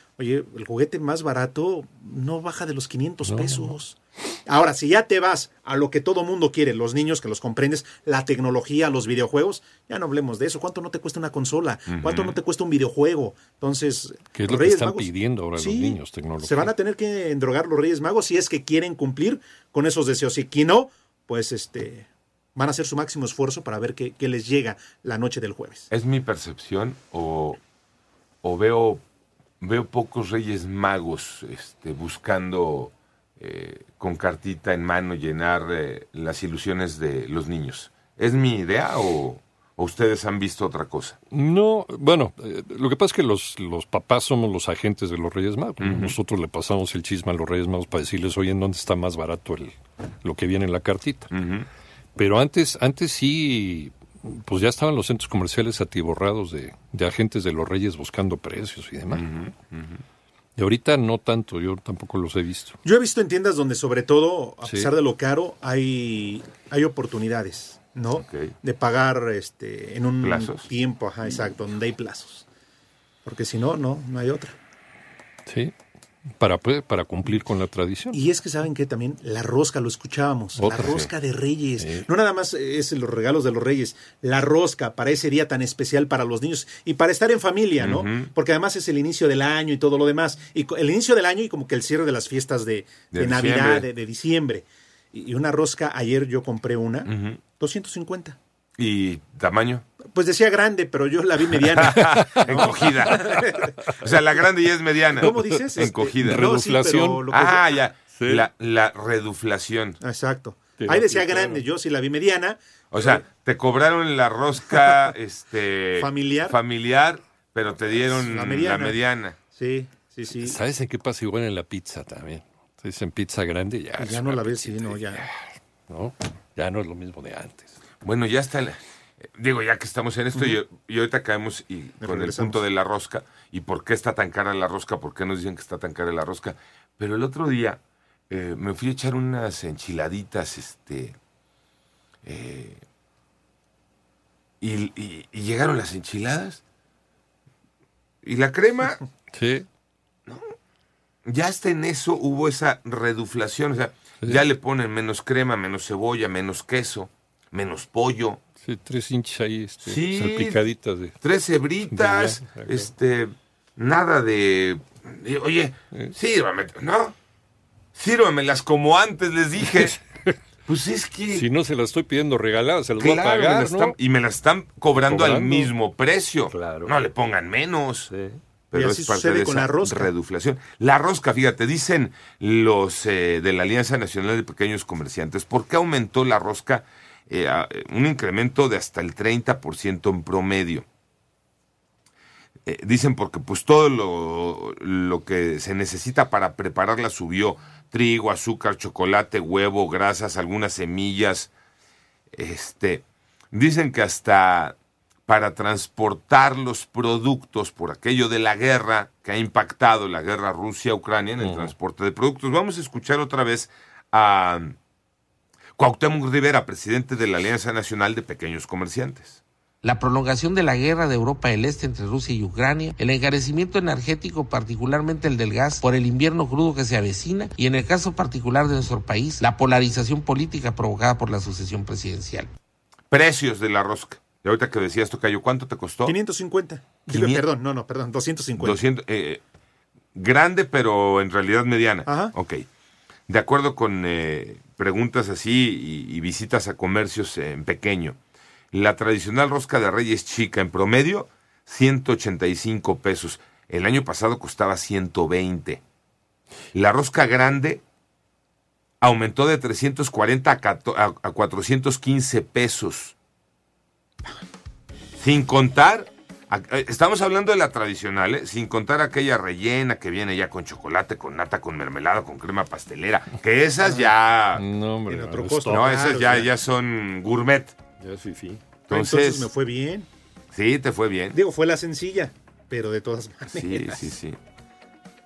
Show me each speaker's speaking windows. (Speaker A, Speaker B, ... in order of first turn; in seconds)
Speaker A: 0.1-25.9, 62.8-72.5, 73.2-74.5, 78.1-98.4, 100.1-103.7, 105.2-107.6, 110.0-113.2, 115.9-116.6, 118.0-119.0, 119.5-120.6, 124.0-125.3, 132.0-132.6, 178.7-180.1, 236.0-238.8, 242.1-242.3, 275.1-276.5, 278.9-280.1, 281.3-284.1
Speaker B: 3.2-3.7, 14.3-16.7, 41.3-51.3, 52.2-59.2, 60.6-62.8, 64.6-64.9, 75.5-75.7, 76.4-78.2, 80.6-81.1, 81.8-82.1, 105.2-107.3, 108.1-108.5, 110.8-111.6, 120.4-125.3, 125.9-127.7, 149.3-149.7, 158.6-161.2, 161.9-162.9, 169.7-170.3, 171.3-173.9, 174.9-175.7, 176.5-176.9, 178.1-178.4, 211.4-211.7, 274.5-275.9, 278.0-278.6
Speaker C: 11.9-12.3, 25.9-27.6, 28.4-29.0, 29.6-41.2, 45.8-46.2, 51.3-51.7, 59.1-60.0, 68.2-68.5, 70.2-70.7, 87.8-88.3, 93.1-93.9, 97.0-97.4, 98.8-99.8, 101.8-106.5, 107.3-110.0, 112.9-119.4, 128.0-128.8, 129.3-141.2, 142.2-142.8, 144.6-146.6, 148.2-149.0, 151.3-158.4, 159.8-160.6, 161.2-167.1, 167.9-170.0, 170.7-171.5, 173.0-178.1, 178.7-190.8, 192.7-201.5, 202.3-204.8, 205.3-214.8, 215.8-219.4, 233.1-236.1, 237.1-237.4, 238.6-239.4, 240.1-242.7, 243.3-248.2, 248.7-255.8, 256.7-257.8, 259.0-263.1, 265.2-274.6, 275.7-277.7, 278.9-279.5, 280.5-281.4, 283.5-284.4
Speaker D: 219.8-232.5